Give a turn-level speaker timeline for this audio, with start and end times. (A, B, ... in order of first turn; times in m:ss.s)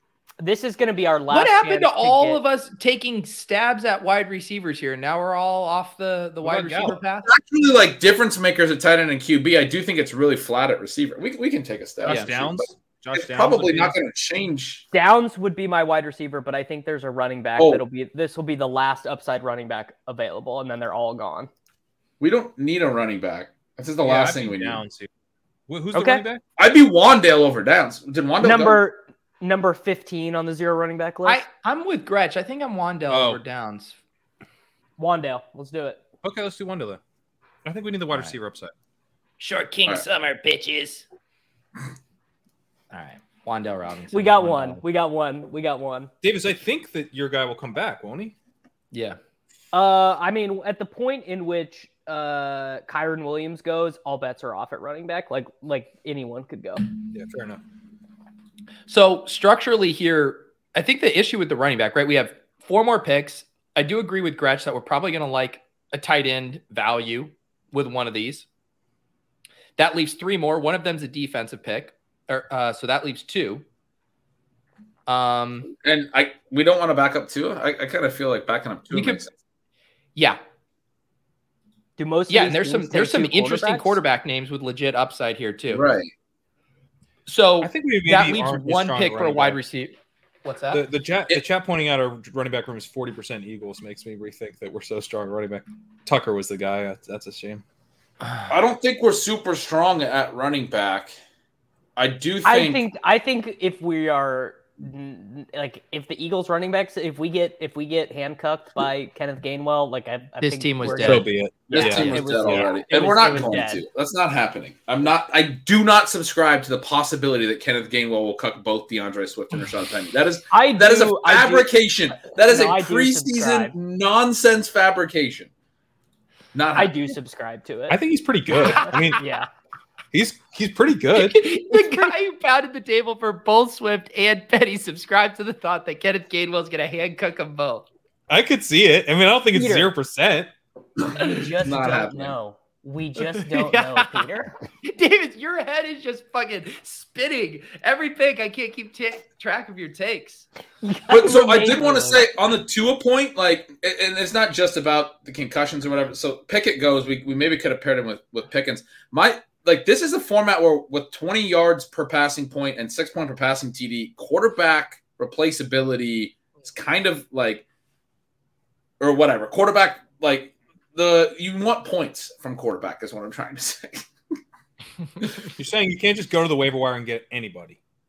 0:00.4-0:02.4 A
0:01.3-0:07.3 B
0:06.4-0:07.0 C
0:07.2-0:14.8 D
0:12.0-0:14.0 C
0:12.0-0:12.3 B
0:14.9-0:21.5 A
0:17.6-0:17.8 D
0:22.2-0:24.8 D
0:24.0-0:25.1 C
0:25.7-0:26.4 C
0:25.9-0:26.2 A
0:26.6-0:28.8 D
0:28.4-0:31.4 A
0:31.2-0:34.0 B
0:33.1-0:33.4 C
0:35.0-0:36.0 A
0:36.2-0:37.0 C
0:37.6-0:38.7 C
0:39.4-0:41.0 B
0:42.9-0:44.8 B
0:44.1-0:46.1 A
0:46.2-0:48.3 C
0:48.9-0:49.2 B
0:49.7-0:56.8 A
0:57.1-0:57.6 C
0:58.9-1:08.4 B
1:09.8-1:13.6 B
1:15.0-1:15.7 B
1:15.8-1:19.3 D
1:18.9-1:19.2 B
1:20.1-1:20.4 B
1:22.0-1:24.0 A
1:22.3-1:25.8 B
1:25.7-1:26.1 D
1:27.2-1:30.8 B
1:27.6-1:29.6 C
1:30.7-1:37.6 C
1:38.5-1:41.1 D
1:42.0-1:42.8 D
1:42.4-1:53.8 A
1:50.4-1:51.3 B
1:51.0-1:52.6 C
1:51.7-2:05.5 D
1:52.2-1:52.6 B
2:00.5-2:01.7 A
2:02.4-2:03.7 A
2:06.5-2:07.1 D
2:06.8-2:08.0 A
2:07.9-2:09.2 C
2:08.6-2:09.5 A
2:08.6-2:09.0 B
2:10.1-2:11.8 C
2:11.1-2:17.9 B
2:18.3-2:20.5 C
2:19.5-2:19.9 A
2:21.2-2:24.5 A
2:21.2-2:22.4 D
2:23.2-2:24.3 B
2:24.8-2:30.5 B
2:30.8-2:32.2 A
2:31.1-2:47.6 D
2:49.0-2:54.1 D
2:55.5-2:57.8 C